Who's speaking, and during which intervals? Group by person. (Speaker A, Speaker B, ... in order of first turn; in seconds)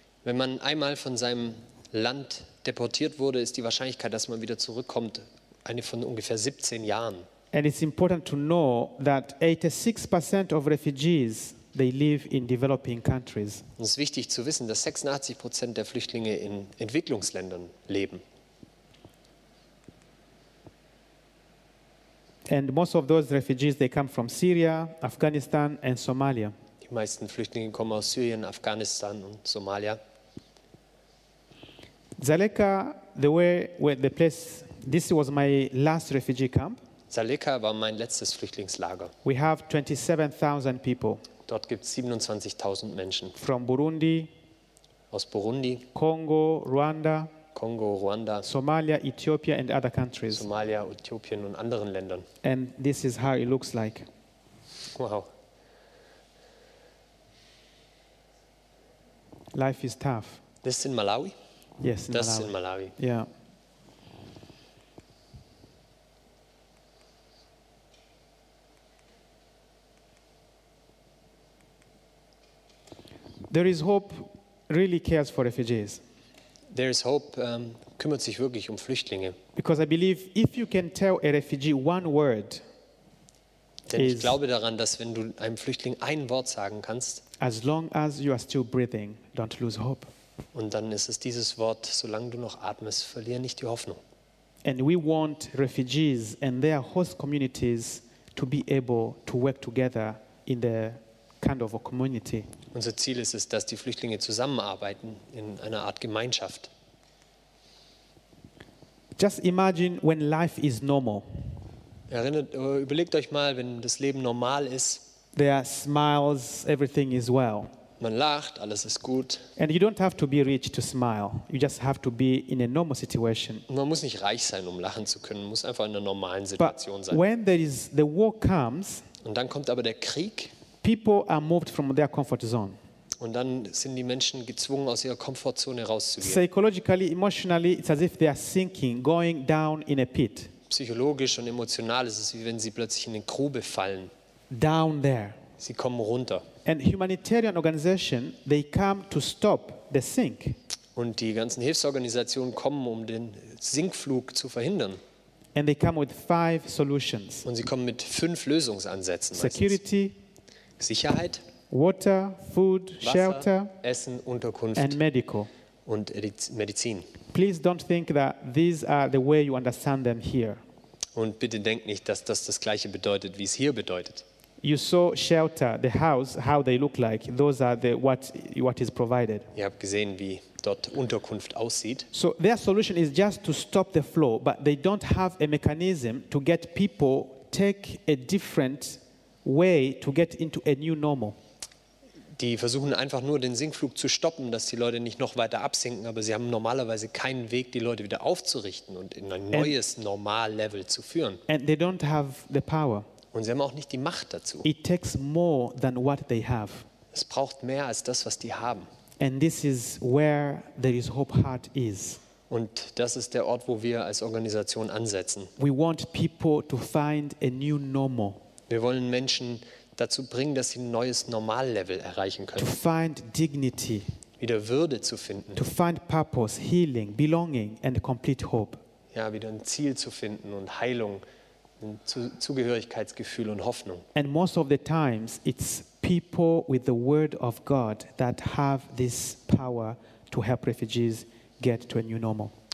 Speaker A: 0.2-7.3, 13.8-18.2, 26.8-30.0, 37.1-39.1, 41.5-43.3, 45.1-45.9, 47.5-48.5, 50.3-52.3, 54.9-55.3, 60.6-61.3, 62.1-62.9, 76.7-79.4, 83.9-87.2, 90.5-94.0, 102.7-106.7, 112.1-115.0, 118.0-119.5, 123.7-127.2, 129.2-130.5, 133.2-136.4, 140.7-144.1, 145.6-146.4, 150.9-155.0, 157.4-159.8, 160.8-161.4, 163.0-165.0, 165.8-167.1, 171.1-174.2, 179.5-182.1, 192.3-201.4, 203.3-204.7, 207.1-208.9, 212.5-215.5, 218.7-222.7, 224.4-225.6, 229.1-231.2, 231.8-234.0
Speaker B: 7.5-13.6, 22.5-26.5, 32.2-36.8, 39.2-41.2, 43.4-44.3, 45.9-47.3, 48.4-50.5, 52.4-54.1, 59.5-60.4, 61.8-63.3, 73.5-76.0, 79.5-82.6, 83.9-84.3, 87.4-90.1, 94.6-102.5, 109.2-111.4, 115.3-117.7, 119.6-123.6, 126.6-129.0, 130.8-132.8, 136.2-140.5, 144.5-145.4, 146.6-150.6, 155.5-157.4, 159.3-160.2, 161.7-163.7, 164.8-165.5, 167.3-170.6, 174.6-179.5, 182.1-191.4, 201.5-203.1, 204.6-206.9, 209.2-212.2, 215.6-218.4, 222.6-224.1, 225.6-228.8, 234.1-242.5